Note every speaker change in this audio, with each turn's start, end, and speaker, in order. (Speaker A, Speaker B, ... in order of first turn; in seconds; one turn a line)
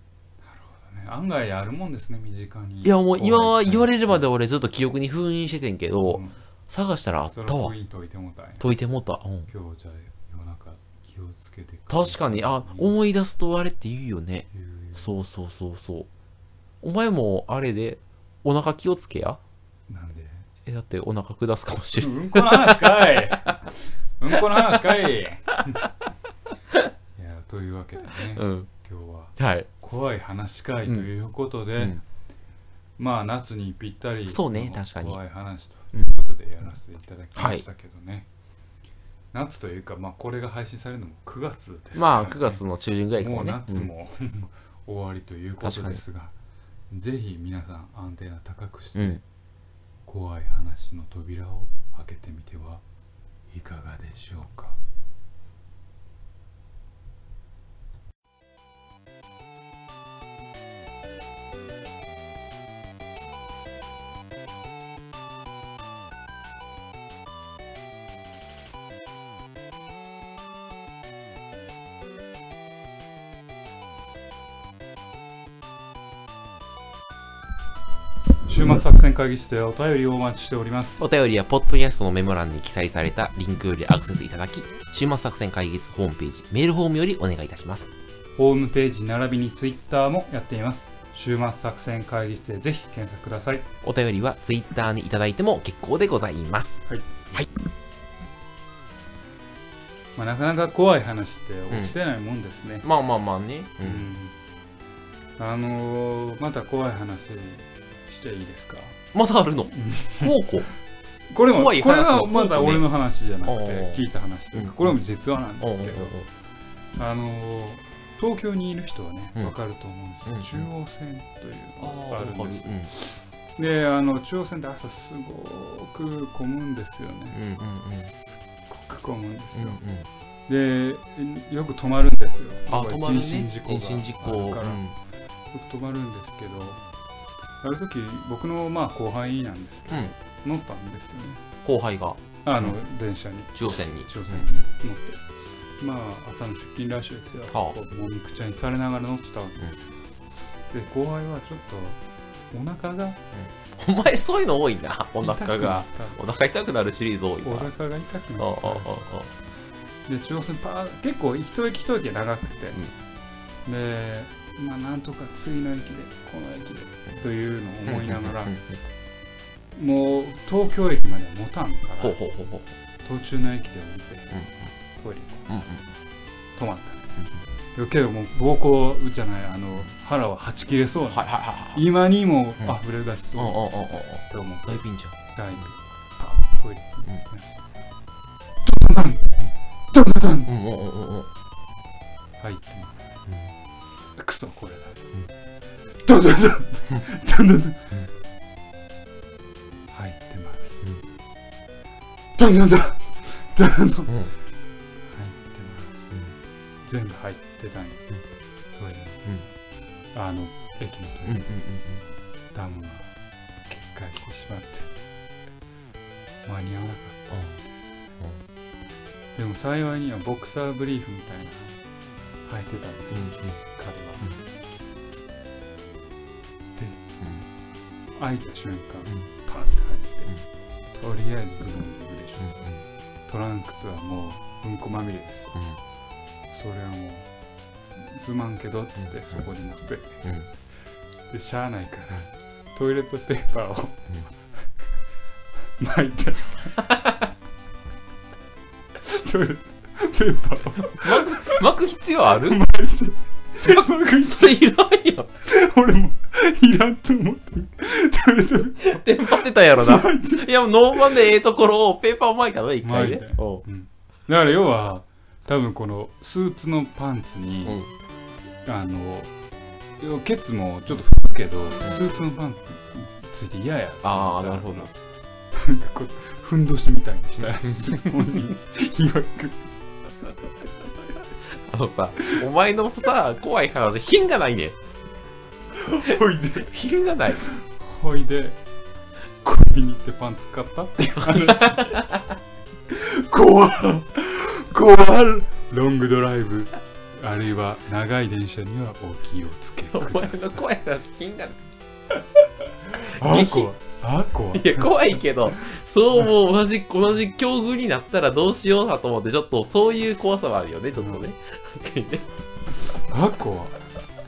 Speaker A: 0.4-4.3
Speaker B: 2.8-7.7
Speaker A: 6.0-6.4
Speaker A: 7.3-8.7
Speaker B: 8.6-9.5
Speaker A: 9.5-12.9
Speaker B: 11.9-16.1
Speaker A: 14.5-15.1
Speaker B: 16.8-19.4
Speaker A: 19.9-20.5
Speaker B: 20.6-23.1
Speaker A: 22.0-25.9
Speaker A: 27.1-32.0
Speaker B: 28.3-28.7
Speaker B: 29.4-29.7
Speaker A: 33.0-38.2
Speaker B: 34.2-35.2
Speaker B: 37.3-37.6
Speaker A: 39.3-42.6
Speaker B: 41.9-43.9
Speaker A: 43.2-46.3
Speaker B: 45.6-46.0
Speaker A: 46.9-49.2
Speaker B: 48.9-49.2
Speaker A: 50.0-52.8
Speaker A: 53.5-54.8
Speaker A: 78.5-81.0
Speaker B: 81.0-87.9
Speaker A: 88.3-93.7
Speaker B: 93.8-97.5
Speaker A: 100.2-102.8
Speaker B: 102.8-104.1
Speaker A: 103.8-104.3
Speaker A: 105.4-109.0
Speaker B: 109.1-110.7
Speaker A: 109.7-110.4
Speaker A: 111.0-116.1
Speaker B: 111.5-112.8
Speaker B: 113.4-114.0
Speaker B: 114.5-115.0
Speaker B: 115.6-116.3
Speaker A: 117.0-127.4
Speaker B: 120.2-120.7
Speaker B: 121.8-122.9
Speaker B: 127.3-128.1
Speaker A: 127.9-129.8
Speaker B: 129.5-130.1
Speaker A: 130.5-134.8
Speaker B: 132.7-134.9
Speaker A: 135.5-136.8
Speaker A: 137.6-141.4
Speaker B: 141.6-142.8
Speaker A: 142.4-145.2
Speaker B: 143.5-144.5
Speaker A: 145.8-149.9
Speaker B: 147.5-147.8
Speaker A: 150.7-152.0
Speaker A: 152.5-153.2
Speaker B: 153.3-157.7
Speaker A: 155.2-156.2
Speaker A: 157.4-159.0
Speaker B: 158.4-159.3
Speaker A: 160.1-162.8
Speaker A: 163.7-168.5
Speaker B: 167.8-168.8
Speaker A: 169.7-172.2
Speaker B: 172.0-172.7
Speaker A: 173.0-174.3
Speaker B: 174.3-174.7
Speaker A: 174.9-175.6
Speaker B: 175.5-175.8
Speaker A: 176.6-177.2
Speaker A: 177.7-187.6
Speaker B: 181.1-181.8
Speaker B: 183.3-185.7
Speaker A: 188.6-189.3
Speaker A: 189.9-190.5
Speaker B: 190.4-191.3
Speaker A: 192.4-193.0
Speaker B: 193.3-193.5
Speaker A: 194.2-195.0
Speaker A: 196.0-198.0
Speaker A: 199.9-200.8
Speaker A: 202.3-204.1
Speaker A: 205.1-206.1
Speaker A: 206.8-208.0
Speaker A: 208.7-209.2
Speaker A: 210.1-211.6
Speaker B: 211.2-212.0
Speaker A: 212.5-213.1
Speaker A: 213.7-214.9
Speaker A: 216.4-218.0
Speaker B: 217.3-217.6
Speaker A: 219.3-221.7
Speaker A: 222.4-224.3
Speaker B: 223.1-223.6
Speaker A: 226.8-227.0
Speaker B: 227.2-227.4
Speaker A: 228.2-230.3
Speaker A: 230.9-232.4
Speaker B: 232.4-232.8
Speaker A: 233.3-235.6
Speaker B: 235.5-235.8
Speaker A: 236.5-237.3
Speaker A: 237.8-240.2
Speaker B: 239.0-239.5
Speaker B: 240.2-240.5
Speaker A: 241.3-244.1
Speaker A: 245.8-246.9
Speaker B: 246.9-247.2
Speaker A: 249.0-251.6
Speaker B: 250.8-252.6
Speaker A: 252.2-254.6
Speaker B: 253.6-255.3
Speaker A: 255.4-261.3
Speaker B: 258.8-263.6
Speaker A: 262.8-267.8
Speaker B: 267.6-267.9
Speaker A: 268.6-269.3
Speaker A: 270.0-274.9
Speaker B: 274.0-274.9
Speaker A: 275.5-279.7
Speaker B: 277.4-278.4
Speaker B: 281.5-284.8
Speaker A: 282.2-282.4
Speaker A: 285.7-286.7
Speaker B: 286.0-287.4
Speaker A: 287.4-288.6
Speaker A: 289.4-292.0
Speaker B: 291.2-292.3
Speaker A: 292.9-300.7
Speaker B: 299.9-301.7
Speaker A: 302.8-306.3
Speaker B: 303.1-303.7
Speaker B: 304.5-312.3
Speaker A: 310.9-311.3
Speaker A: 312.8-313.8